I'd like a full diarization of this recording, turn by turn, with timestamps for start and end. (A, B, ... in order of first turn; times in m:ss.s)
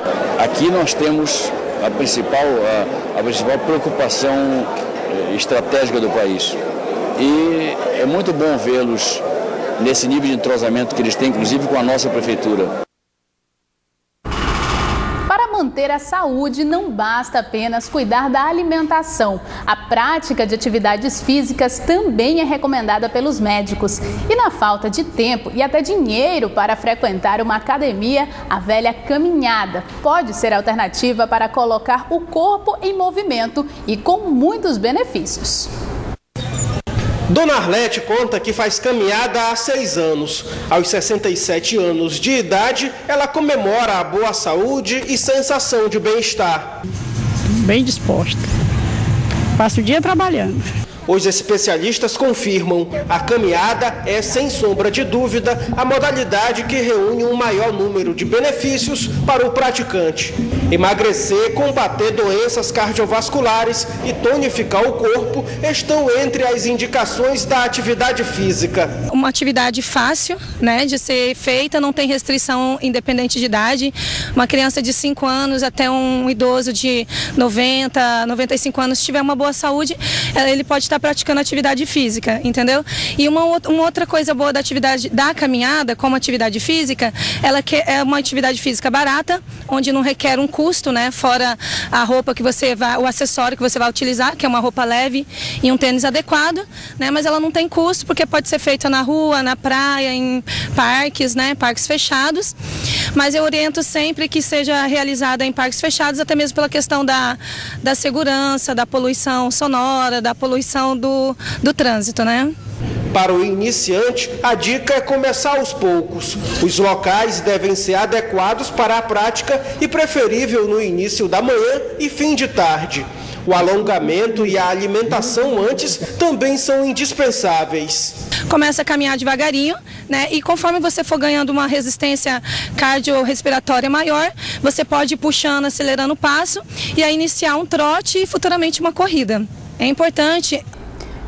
0:00.4-0:06.6 A
0:07.2-0:09.2 A
0:09.8-0:12.7 A
0:15.3-0:35.7 B
0:37.3-0:46.6 C
0:47.5-0:48.5 D
0:49.6-0:50.7 D
0:51.1-1:08.9 C
1:09.1-1:42.5 E
1:43.1-1:52.5 E
1:53.1-2:08.2 C
2:08.5-2:20.6 E